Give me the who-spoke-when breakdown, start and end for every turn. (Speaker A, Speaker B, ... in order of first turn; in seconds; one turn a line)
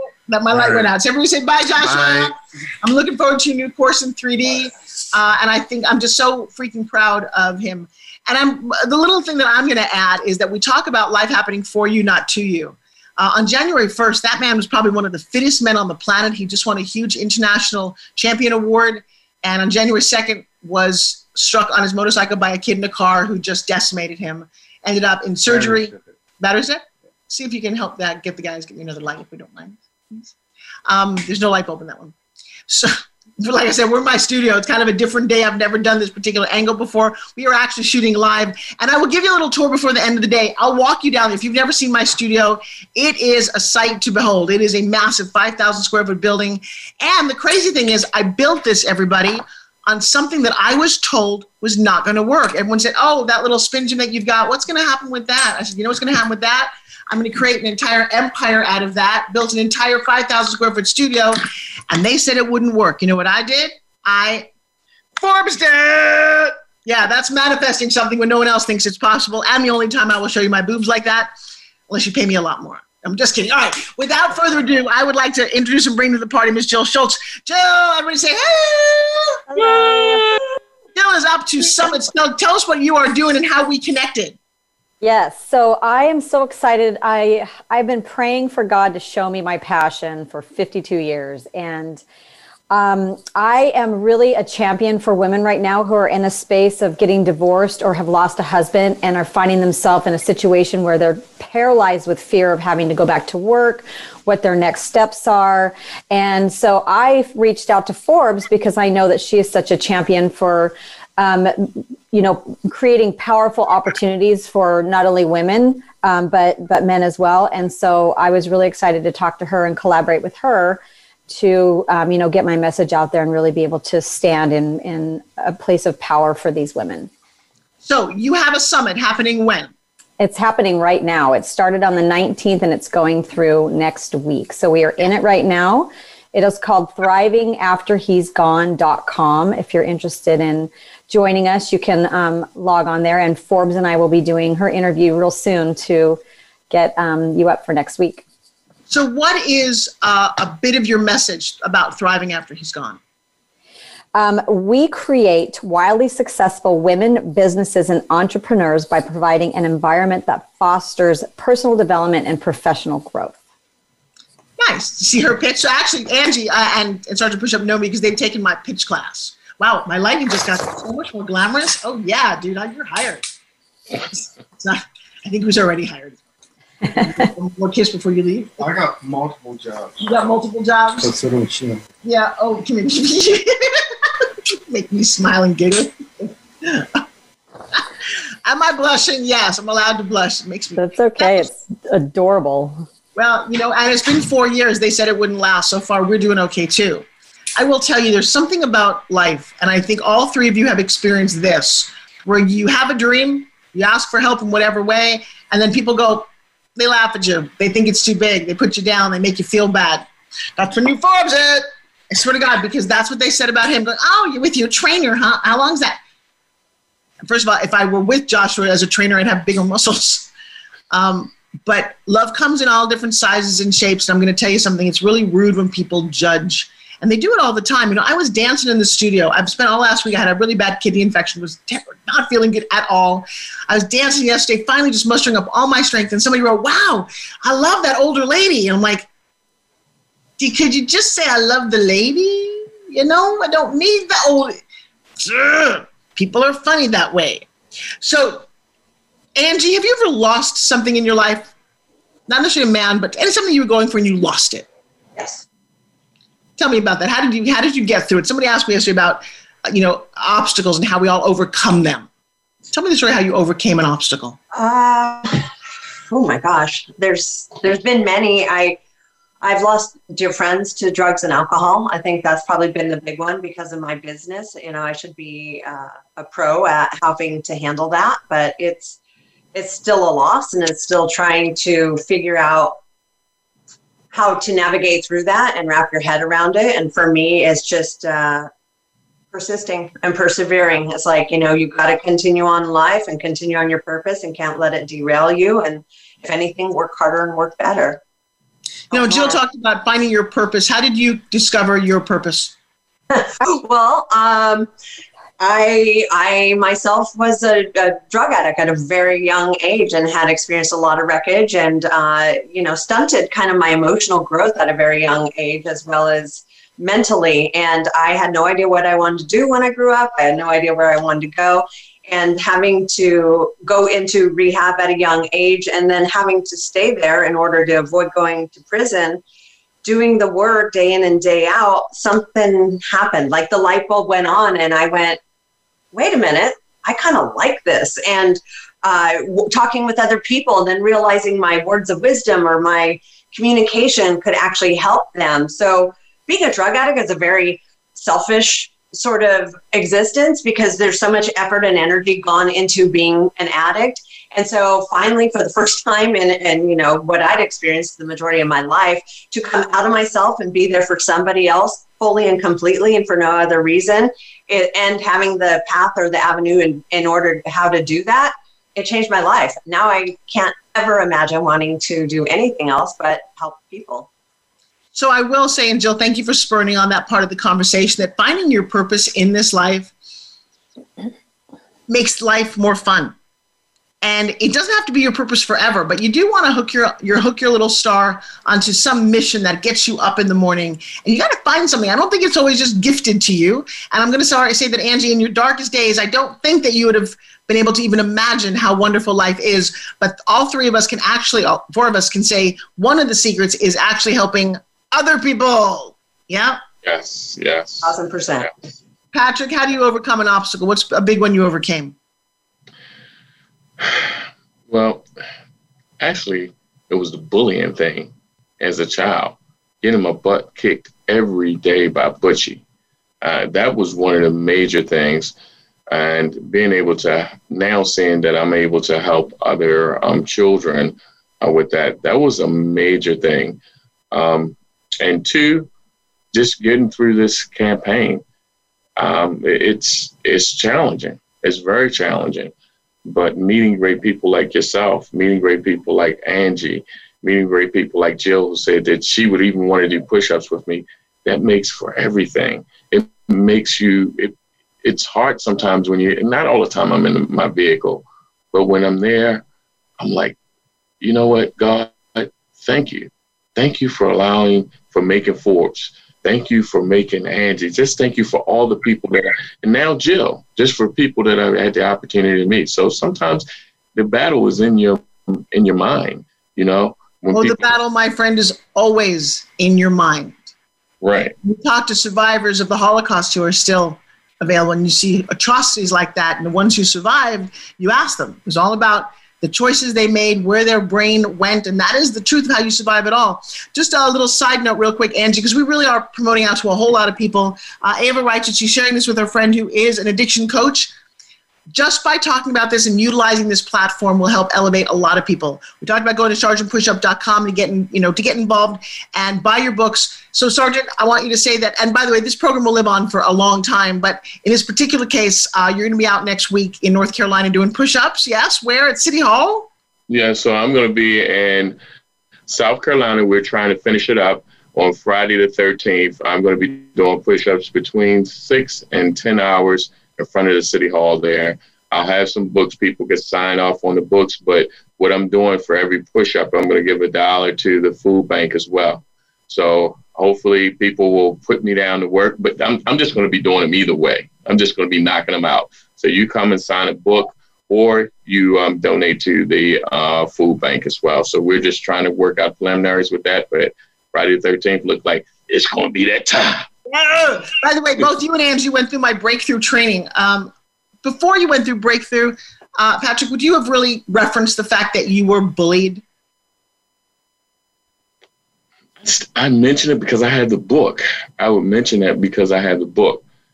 Speaker A: 0.3-30.3
Speaker B: 0.5-0.9
Speaker B: 1.8-2.4
Speaker B: 25.5-26.0
Speaker A: 30.9-32.1
Speaker A: 32.7-64.5
Speaker A: 65.2-71.3
Speaker A: 71.9-80.2
Speaker C: 79.5-80.2
Speaker A: 81.0-84.4
Speaker C: 85.0-92.0
Speaker C: 92.7-127.1
Speaker A: 127.8-129.7
Speaker C: 130.2-148.2
Speaker A: 148.9-153.0
Speaker C: 154.2-163.4
Speaker A: 164.6-173.2
Speaker A: 173.9-176.2
Speaker A: 177.0-178.7
Speaker B: 178.6-180.3
Speaker A: 180.0-181.1
Speaker B: 181.0-181.8
Speaker A: 182.0-187.0
Speaker A: 188.4-191.5
Speaker C: 190.8-192.9
Speaker A: 193.2-197.1
Speaker A: 197.6-216.0
Speaker A: 217.3-220.3
Speaker A: 220.9-239.1
Speaker A: 240.4-244.6
Speaker A: 245.2-247.5
Speaker A: 248.0-248.4
Speaker A: 249.4-251.5
Speaker A: 252.3-254.7
Speaker D: 255.2-255.4
Speaker A: 256.6-262.1
Speaker A: 262.7-264.4
Speaker D: 264.5-265.5
Speaker D: 266.1-268.8
Speaker D: 269.4-279.0
Speaker D: 279.5-282.8
Speaker D: 284.1-288.5
Speaker D: 289.3-298.0
Speaker D: 298.9-299.4
Speaker A: 298.9-302.5
Speaker D: 303.1-304.7
Speaker D: 305.4-329.2
Speaker D: 329.8-335.2
Speaker D: 335.9-374.1
Speaker A: 374.9-379.9
Speaker A: 381.9-383.1
Speaker A: 384.0-406.6
Speaker E: 406.8-407.9
Speaker D: 407.8-408.5
Speaker A: 409.1-411.9
Speaker E: 413.8-414.1
Speaker E: 414.7-415.1
Speaker E: 416.0-422.6
Speaker E: 423.2-425.3
Speaker E: 425.9-433.6
Speaker E: 434.1-435.7
Speaker E: 436.3-438.2
Speaker E: 439.0-442.5
Speaker E: 443.1-459.4
Speaker E: 460.0-460.4
Speaker E: 461.0-477.8
Speaker A: 477.3-480.5
Speaker E: 481.0-481.4
Speaker A: 481.4-500.9
Speaker A: 501.7-519.7
Speaker E: 520.1-521.8
Speaker E: 522.5-556.7
Speaker A: 556.9-560.5
Speaker A: 561.0-566.0
Speaker E: 569.0-573.2